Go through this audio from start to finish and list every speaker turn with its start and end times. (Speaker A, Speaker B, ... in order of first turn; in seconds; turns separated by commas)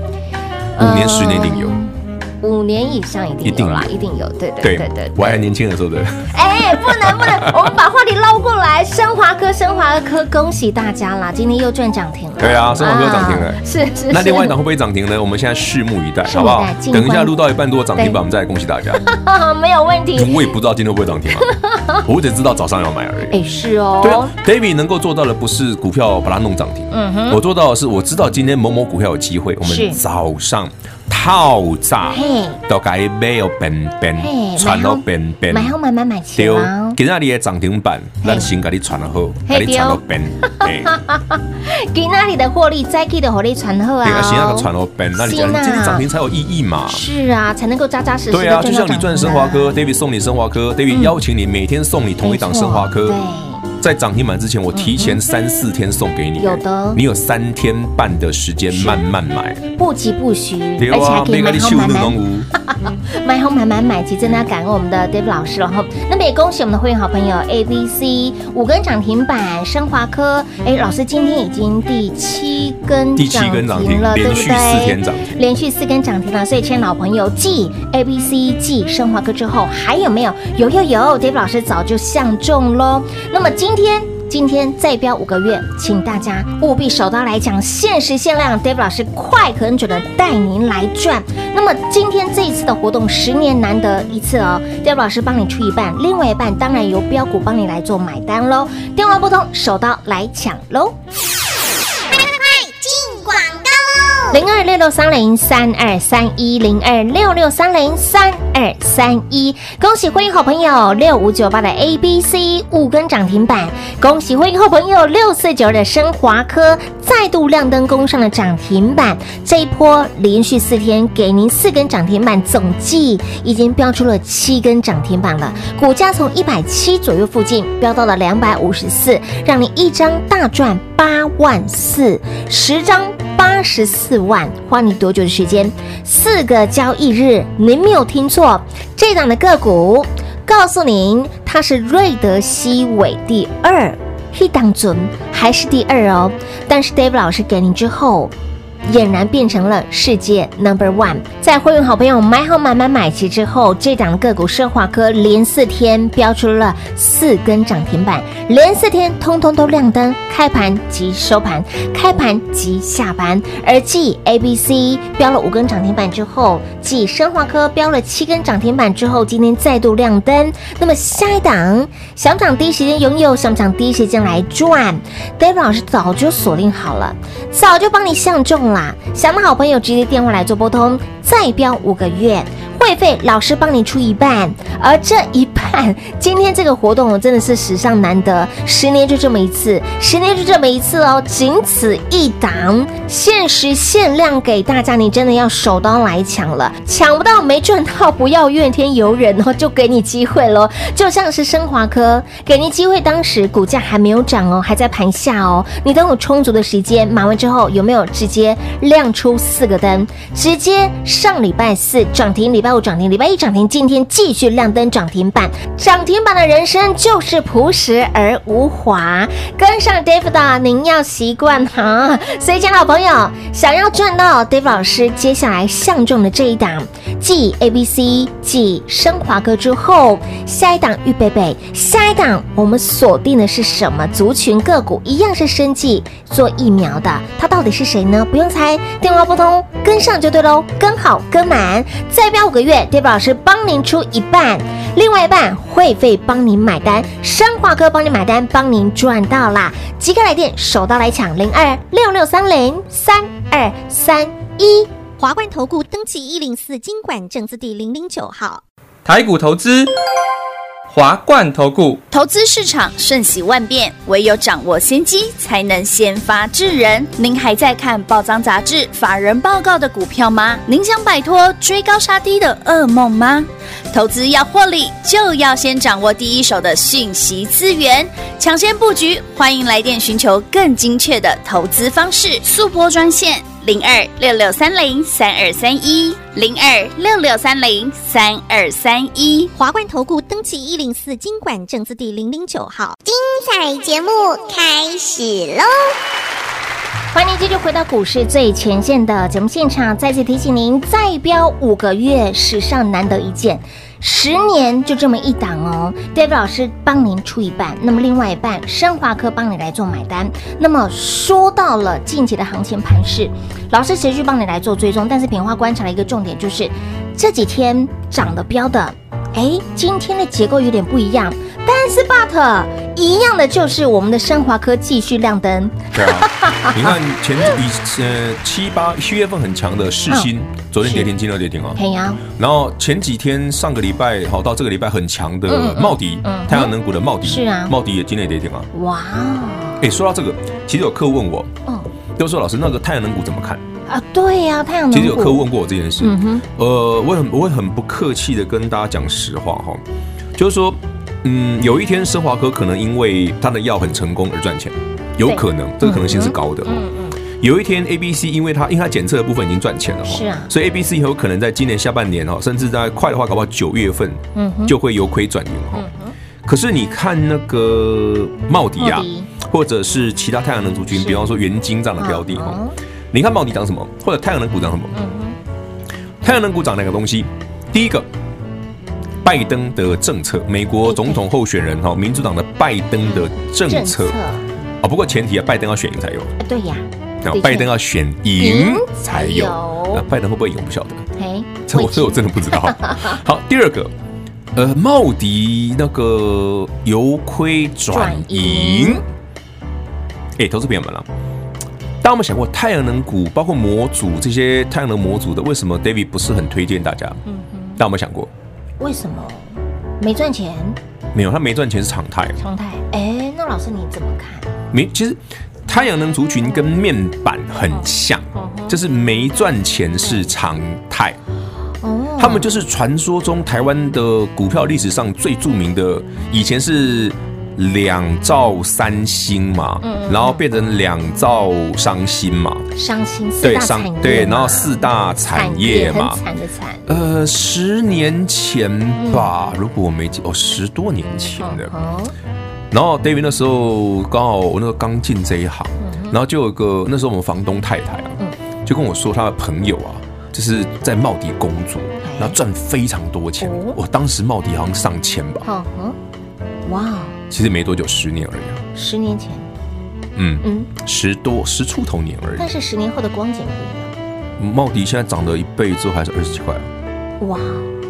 Speaker A: 0.8-1.8, Speaker B: 0.8-5.4, Speaker A: 3.4-3.9, Speaker A: 4.6-7.7, Speaker B: 6.3-14.6, Speaker A: 12.4-19.1, Speaker B: 16.2-17.4, Speaker B: 18.9-20.5, Speaker A: 20.1-21.5, Speaker B: 21.5-22.0, Speaker A: 22.0-23.4, Speaker B: 23.3-24.3, Speaker A: 24.0-35.8, Speaker B: 26.9-27.4, Speaker B: 29.6-30.0, Speaker B: 32.1-32.6, Speaker B: 34.2-37.0, Speaker A: 36.4-41.0, Speaker B: 38.2-38.5, Speaker B: 39.5-46.1, Speaker A: 44.0-47.0, Speaker B: 46.9-49.8, Speaker A: 48.3-53.2, Speaker B: 50.9-51.2, Speaker B: 52.2-53.7, Speaker A: 53.8-59.6, Speaker B: 54.7-55.2, Speaker B: 56.4-57.0, Speaker B: 58.7-59.0, Speaker B: 59.7-101.0, Speaker A: 60.8-62.5, Speaker A: 73.2-75.4, Speaker C: 102.1-104.4, Speaker B: 104.3-148.3, Speaker B: 148.8-254.9, Speaker C: 255.2-258.6, Speaker D: 259.1-259.9, Speaker D: 260.9-262.0, Speaker E: 262.1-289.5, Speaker C: 289.6-296.0, Speaker B: 297.1-327.0, Speaker A: 325.9-338.7, Speaker B: 330.8-331.1, Speaker B: 331.8-332.2, Speaker B: 335.5-337.7, Speaker B: 338.7-339.9, Speaker A: 339.8-341.5, Speaker A: 342.2-343.6, Speaker B: 343.9-345.4, Speaker A: 344.9-349.8, Speaker B: 346.0-346.4, Speaker A: 350.4-365.9, Speaker B: 355.3-357.2, Speaker B: 360.1-360.5, Speaker B: 364.4-364.8, Speaker B: 365.7-366.1, Speaker A: 366.4-372.6, Speaker B: 368.8-369.3, Speaker B: 370.9-371.3, Speaker B: 372.0-372.8, Speaker A: 373.1-375.0, Speaker B: 374.9-375.4, Speaker A: 376.2-378.1, Speaker A: 379.2-384.2, Speaker B: 380.9-381.2, Speaker B: 383.1-384.4, Speaker A: 384.8-386.4, Speaker B: 386.4-387.7, Speaker A: 387.2-391.1, Speaker B: 388.4-390.1, Speaker B: 391.2-393.2, Speaker A: 391.7-393.9, Speaker A: 394.6-399.0, Speaker B: 397.9-399.0, Speaker A: 400.4-401.1, Speaker A: 402.0-407.2, Speaker B: 407.3-407.8, Speaker A: 407.8-408.3, Speaker B: 408.8-410.8, Speaker A: 411.1-412.4, Speaker B: 412.4-414.5, Speaker A: 414.7-421.2, Speaker B: 417.7-418.8, Speaker B: 421.8-422.5, Speaker A: 422.2-432.7, Speaker B: 429.8-430.4, Speaker B: 432.8-436.9, Speaker A: 433.4-436.2, Speaker A: 436.9-441.7, Speaker B: 439.0-439.3, Speaker B: 441.4-442.1, Speaker A: 442.7-455.4, Speaker B: 445.8-446.2, Speaker B: 452.0-452.4, Speaker B: 453.4-453.8, Speaker B: 455.4-456.0, Speaker B: 456.7-457.2, Speaker A: 457.3-458.6, Speaker B: 458.8-459.5, Speaker A: 460.2-462.5, Speaker B: 460.4-460.7, Speaker B: 462.4-463.9, Speaker A: 464.4-466.7, Speaker B: 467.2-467.7